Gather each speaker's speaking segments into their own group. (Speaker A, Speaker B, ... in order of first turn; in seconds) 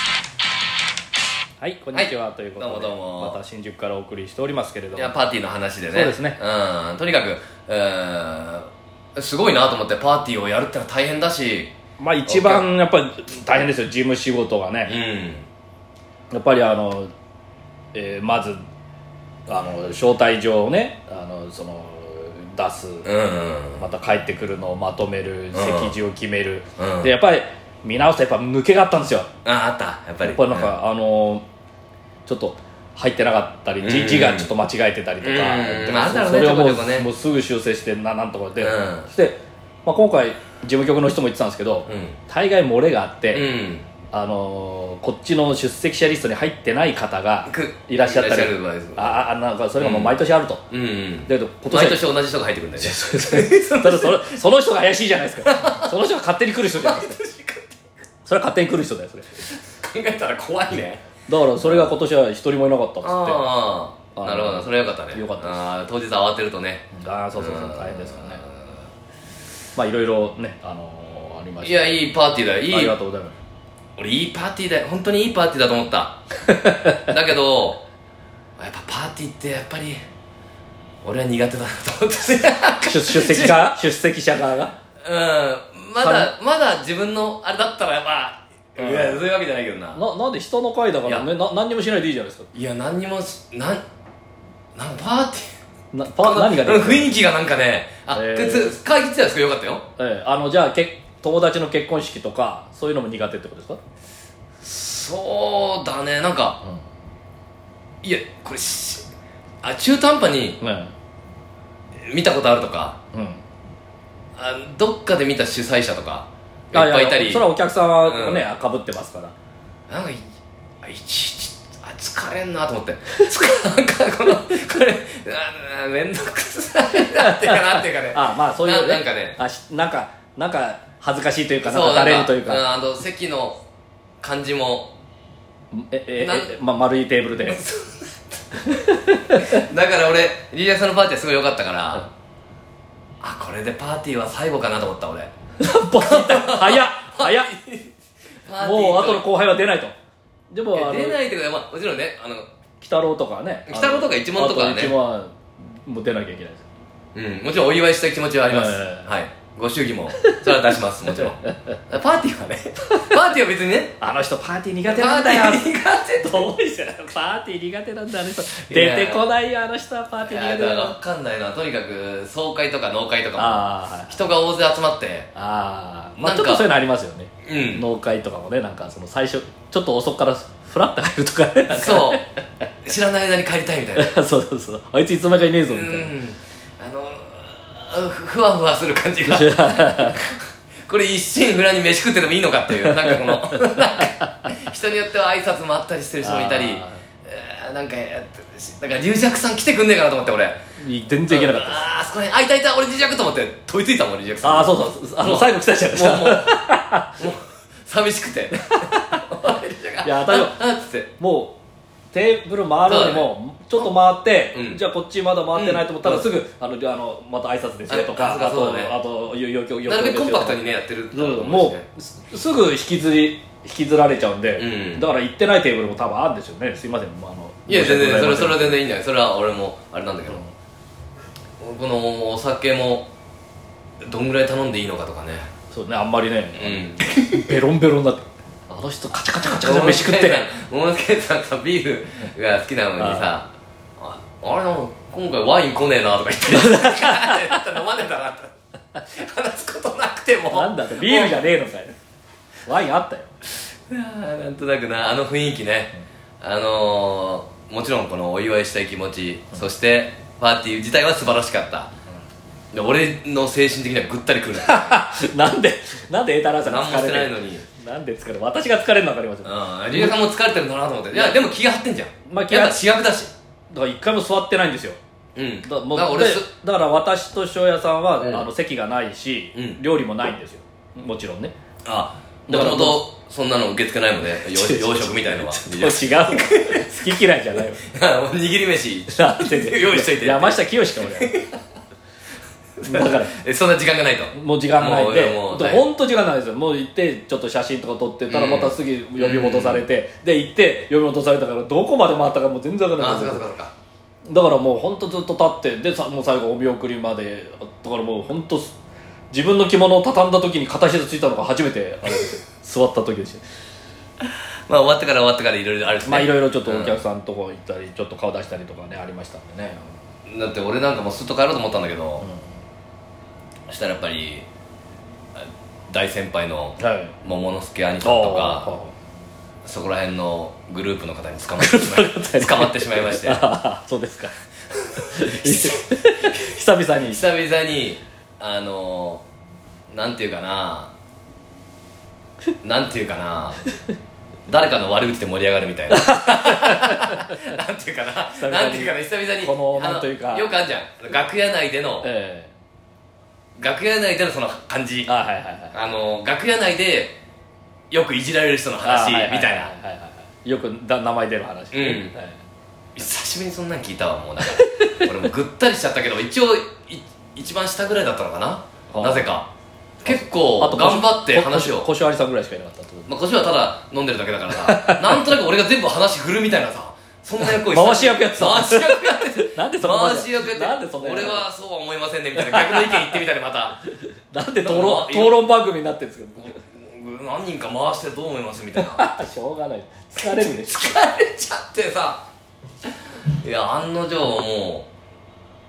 Speaker A: 1.6-5.1, 5.9-6.4, 12.0-15.0, 16.3-17.1, 17.9-18.6, 19.5-23.1, 23.8-29.3, 30.2-31.4, 32.3-43.5, 44.1-50.6, 51.3-52.1, 52.8-57.2, 58.2-59.3, 61.3-63.5, 64.2-65.7, 66.9-68.4, 69.8-72.0, 72.7-73.4, 76.5-77.1, 82.8-84.7, 86.0-86.3, 88.8-89.2, 89.9-92.5, 95.9-97.2, 98.1-98.8, 100.0-103.8, 110.6-110.9, 113.1-113.4, 116.7-119.3, 127.0-132.6, 135.7-137.6, 138.7-139.6, 145.6-147.5, 148.6-149.9, 150.5-151.2, 152.8-156.7, 158.5-159.1, 160.1-160.6, 164.0-171.0, 173.4-174.2, 175.3-182.2, 184.0-186.1, 189.3-190.2, 192.8-194.5, 196.2-197.0, 200.8-201.8, 204.4-207.2, 208.7-209.5, 210.0-210.6, 211.2-211.6, 212.1-220.6, 221.1-228.8, 230.3-230.5, 235.7-240.5, 243.0-243.3, 246.5-247.5, 250.5-252.0, 252.7-253.3, 264.6-270.2, 271.1-271.4, 272.3-272.8, 273.7-275.0, 275.6-281.5, 282.5-283.0, 284.4-287.8, 289.1-291.4, 292.8-293.4, 294.3-303.5, 304.3-308.7, 309.3-313.4, 316.1-319.9, 322.2-322.5, 326.8-327.2, 328.0-328.9, 331.6-334.3, 335.0-337.2, 345.9-347.4, 348.4-350.5, 352.0-352.5, 355.1-355.8, 358.8-362.4, 364.6-365.2, 368.9-369.3, 370.1-373.2, 374.5-375.3, 377.4-381.5, 382.4-383.2, 384.3-386.6, 388.8-390.9
Speaker B: 1.9-3.4, 5.0-11.7, 12.3-12.7, 14.9-15.5, 23.1-23.8, 25.5-25.9, 26.8-27.1, 29.4-30.7, 33.8-34.5, 35.2-37.1, 38.6-39.1, 41.9-42.2, 43.3-43.9, 47.5-49.3, 49.8-50.1, 50.7-54.2, 55.5-55.9, 56.8-57.7, 59.5-61.0, 61.6-61.9, 63.0-68.8, 71.6-73.0, 74.0-76.2, 77.0-77.8, 78.6-80.0, 81.0-83.8, 85.0-90.0, 92.5-93.8, 94.8-95.5, 96.2-99.9, 104.6-106.6, 108.0-109.1, 109.6-110.6, 112.0-113.0, 114.4-117.5, 118.1-118.4, 119.9-120.2, 120.8-129.4, 131.6-133.6, 134.2-134.9, 136.2-136.5, 137.4-138.4, 139.4-142.1, 143.2-145.3, 146.0-147.9, 148.4-149.3, 150.8-152.5, 153.7-154.9, 157.2-164.0, 164.9-166.5, 168.7-169.2, 170.2-175.3, 176.2-176.7, 177.5-177.8, 181.7-182.3, 182.8-184.1, 185.7-200.6, 201.3-206.6, 207.2-211.1, 212.9-213.9, 214.5-214.8, 215.5-216.2, 217.9-218.9, 219.9-221.9, 224.6-225.1, 227.7-230.4, 231.6-233.1, 234.0-235.5, 236.6-237.5, 239.6-248.5, 249.1-251.4, 253.9-261.9, 262.7-265.0, 266.6-267.7, 269.4-273.3, 275.4-276.5, 278.2-278.5, 281.9-286.9, 287.9-291.6, 292.8-295.9, 298.3-299.9, 303.0-303.7, 314.2-317.0, 320.3-322.3, 323.7-324.5, 325.9-328.7, 329.6-333.4, 334.8-335.9, 337.0-339.2, 339.9-340.9, 342.6-343.6, 344.5-352.1, 353.6-355.1, 355.7-357.2, 357.9-359.7, 361.7-362.1, 363.0-369.5, 370.0-371.9, 373.1-383.8, 384.6-385.4, 386.4-389.1, 390.2-392.2, 393.3-394.9